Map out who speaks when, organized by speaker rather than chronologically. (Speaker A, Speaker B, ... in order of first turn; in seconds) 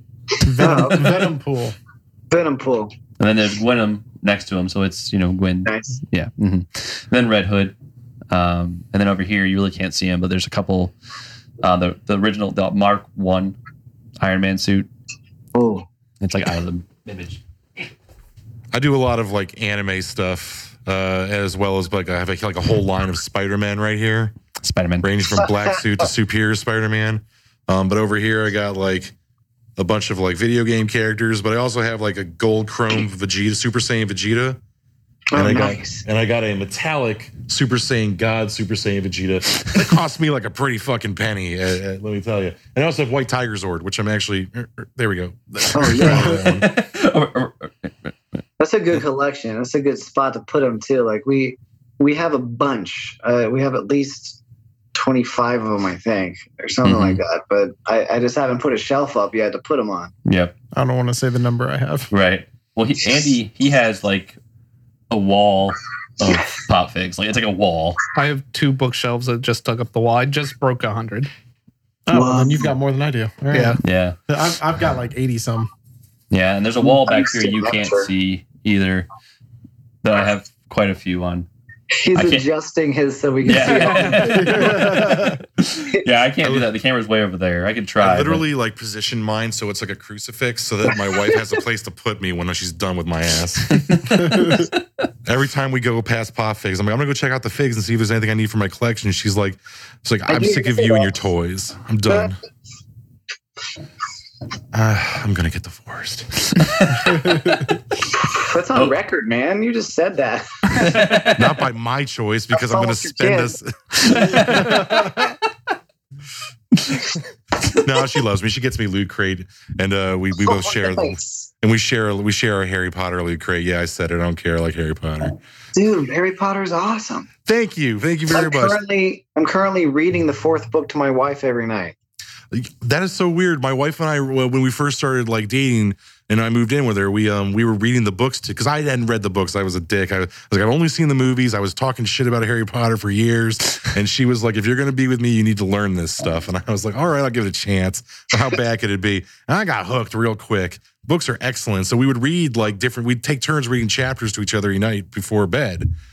Speaker A: 0.4-1.8, 46.1-46.3, 60.7-62.1, 72.0-75.7, 83.6-85.4, 94.1-94.7, 107.0-107.6, 114.5-115.2
Speaker B: 0.6-1.3, 2.3-2.9, 5.6-6.0, 15.5-15.9, 35.3-36.0, 45.7-46.4, 48.6-54.4, 55.0-60.1, 72.1-72.7, 76.9-78.1, 81.9-85.2, 100.3-101.2, 108.0-110.5, 112.5-113.5, 120.4-121.5, 125.7-127.3, 128.3-131.9
Speaker C: 3.2-7.7, 8.3-10.9, 11.6-13.6, 14.2-14.9, 16.2-17.4, 24.6-25.1, 46.0-48.1, 56.8-57.2, 60.3-60.5, 62.1-64.4, 65.1-68.0, 73.8-74.2, 76.3-79.1, 80.0-81.5, 82.1-82.5, 83.4-88.5, 93.7-94.7, 106.6-107.3, 110.7-111.6, 114.0-115.3
Speaker D: 18.7-24.3, 25.0-29.1, 29.8-34.6, 35.3-46.7, 88.0-94.0, 95.2-102.4, 104.7-106.6, 111.3-114.5, 117.8-125.4, 127.5-128.8, 132.5-155.9
Speaker E: 68.1-71.3, 73.5-73.8